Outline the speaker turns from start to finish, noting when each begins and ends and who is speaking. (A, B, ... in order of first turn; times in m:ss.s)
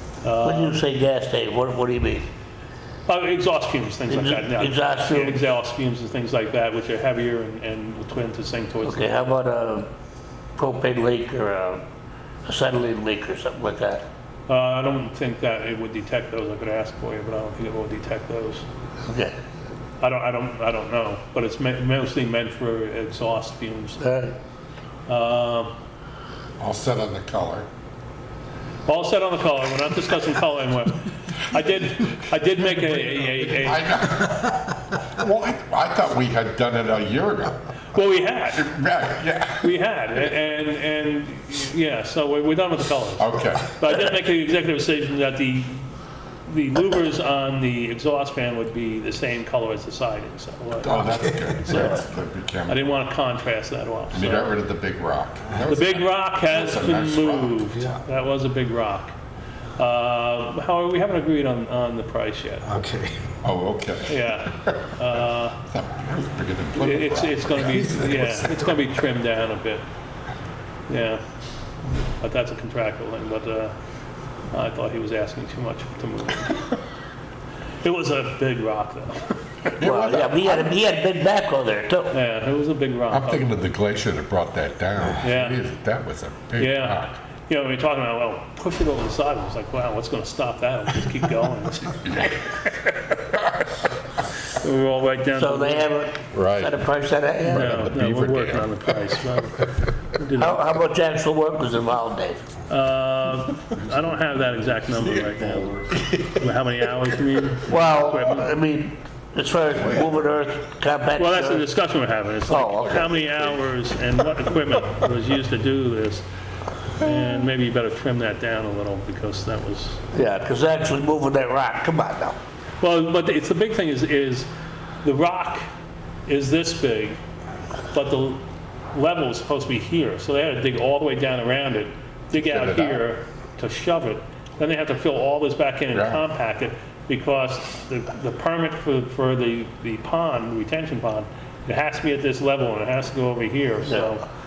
0:00.2-0:00.8 A
0:00.4-0:02.3 B
0:03.1-0:09.3 A
0:04.1-0:05.4 B
0:08.8-0:09.9 B
0:10.6-0:11.8 B
0:12.5-0:14.1 B
0:14.5-0:18.6 A
0:19.1-0:19.4 B
0:20.0-0:24.1 A
0:24.0-0:24.4 B
0:25.1-0:25.7 A
0:26.6-0:27.7 C
0:28.9-0:33.9 A
0:33.5-0:37.6 C
0:37.9-0:38.7 A
0:38.5-0:39.7 C
0:39.6-0:45.9 A
0:43.2-0:43.7 C
0:46.4-0:52.0 A
0:50.8-0:52.9 C
0:51.0-0:51.4 D
0:52.7-0:54.6 A
0:54.1-0:57.6 C
0:55.7-0:59.2 A
0:57.7-0:58.0 D
0:59.8-1:02.7 A
1:02.6-1:03.4 D
1:03.4-1:04.9 C
1:04.1-1:05.6 A
1:05.6-1:08.2 C
1:06.8-1:09.8 A
1:07.6-1:08.8 D
1:10.9-1:11.2 A
1:12.2-1:13.8 A
1:14.5-1:16.7 A
1:17.8-1:19.4 A
1:19.8-1:22.1 B
1:19.8-1:20.8 C
1:22.1-1:23.6 A
1:23.1-1:27.2 C
1:25.2-1:25.6 A
1:26.6-1:32.7 A
1:32.0-1:32.5 C
1:34.4-1:35.9 A
1:35.4-1:37.7 B
1:36.3-1:36.8 C
1:37.4-1:39.2 C
1:37.5-1:40.6 A
1:40.4-1:42.4 B
1:42.7-1:48.5 A
1:45.2-1:46.2 B
1:45.2-1:46.1 C
1:47.6-1:51.7 B
1:49.8-1:50.2 C
1:51.2-1:56.2 A
1:52.5-1:53.1 B
1:52.9-1:53.6 C
1:57.0-2:00.0 A
2:00.1-2:02.4 B
2:02.8-2:04.5 A
2:05.0-2:05.7 A
2:06.3-2:07.2 A
2:07.9-2:24.2 A
2:12.3-2:13.0 C
2:15.9-2:16.2 C